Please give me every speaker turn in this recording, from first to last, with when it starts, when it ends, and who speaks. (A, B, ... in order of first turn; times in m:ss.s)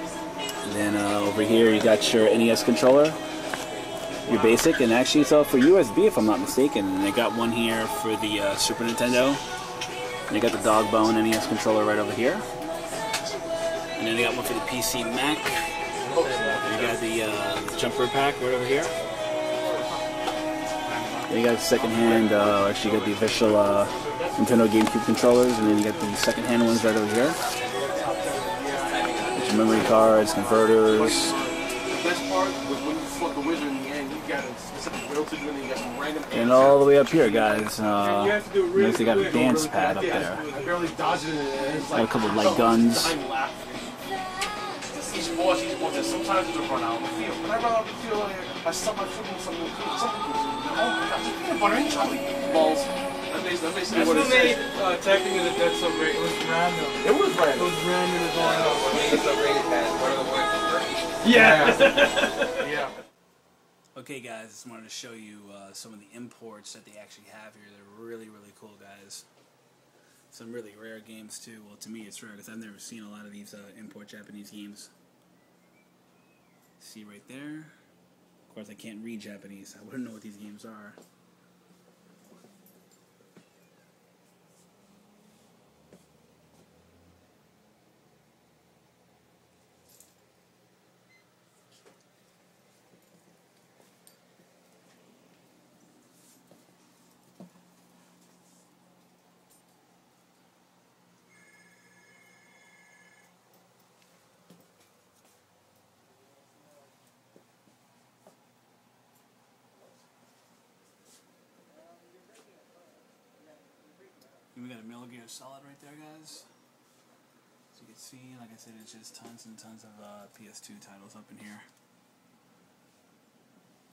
0:00.6-0:03.2 A
0:00.9-0:05.7 B
0:04.3-0:09.4 A
0:10.3-0:12.5 A
0:14.0-0:15.6 A
0:16.0-0:16.8 C
0:16.2-0:16.6 D
0:16.6-0:19.0 A
0:16.8-0:17.0 B
0:18.5-0:19.9 B
0:20.9-0:23.2 C
0:21.3-0:27.4 A
0:24.1-0:24.4 D
0:25.8-0:26.0 D
0:27.0-0:31.2 B
0:27.8-0:28.9 D
0:29.3-0:31.4 A
0:30.9-0:37.5 C
0:36.3-0:40.5 A
0:37.9-0:41.1 D
0:40.0-0:44.0 C
0:41.9-0:43.2 A
0:44.9-0:54.7 C
0:53.8-0:59.3 D
0:57.0-0:57.8 C
0:58.4-1:02.0 B
1:01.2-1:02.9 D
1:01.3-1:01.8 C
1:03.9-1:09.3 A
1:10.3-1:14.9 A
1:16.8-1:17.7 A
1:18.5-1:21.0 A
1:54.5-1:56.5 A
1:57.7-2:01.7 A